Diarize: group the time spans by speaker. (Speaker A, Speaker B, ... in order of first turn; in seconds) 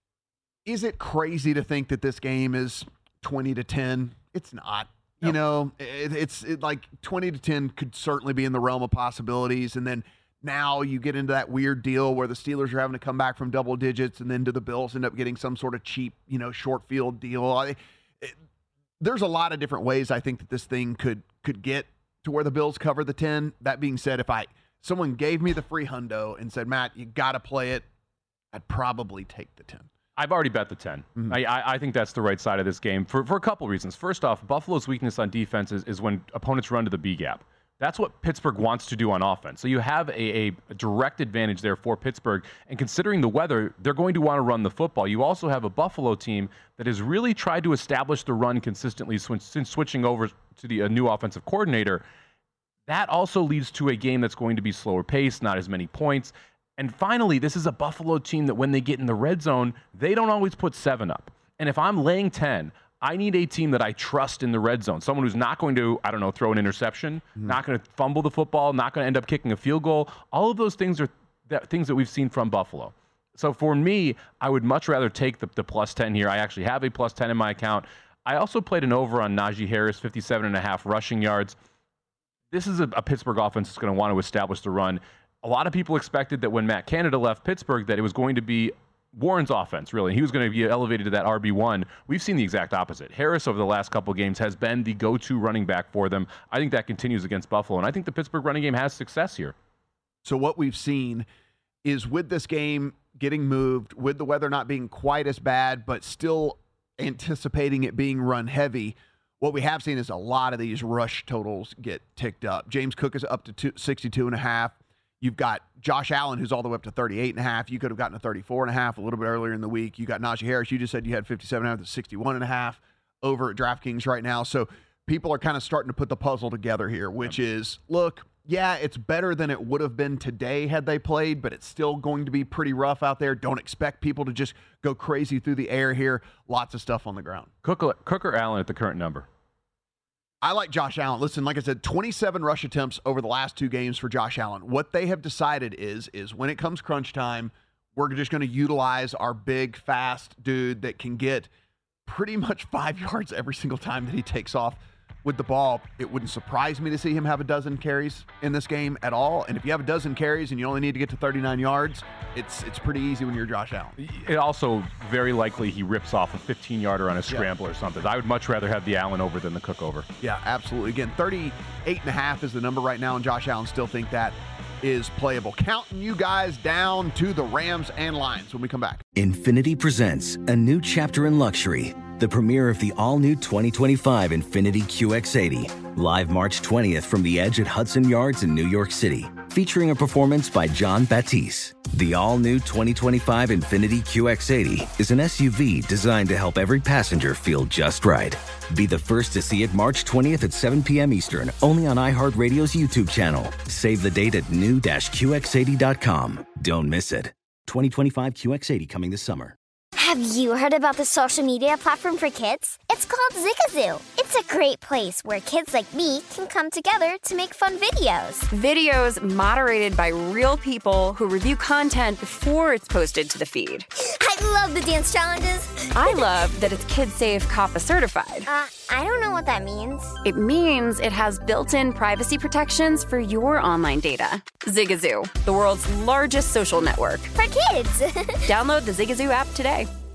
Speaker A: 0.7-18.4, 19.0-27.9, 28.5-29.9, 100.2-101.3, 101.8-137.5, 140.4-151.5, 152.1-164.0, 170.2-179.0
Speaker B: 30.2-52.0, 52.9-81.5, 82.5-99.5, 137.6-139.3, 164.0-170.1
Speaker C: 179.2-209.6
Speaker D: 210.0-218.5, 224.0-226.2, 228.5-230.2, 237.3-238.4
Speaker E: 218.5-223.9, 225.9-228.5, 230.2-237.3, 238.5-239.9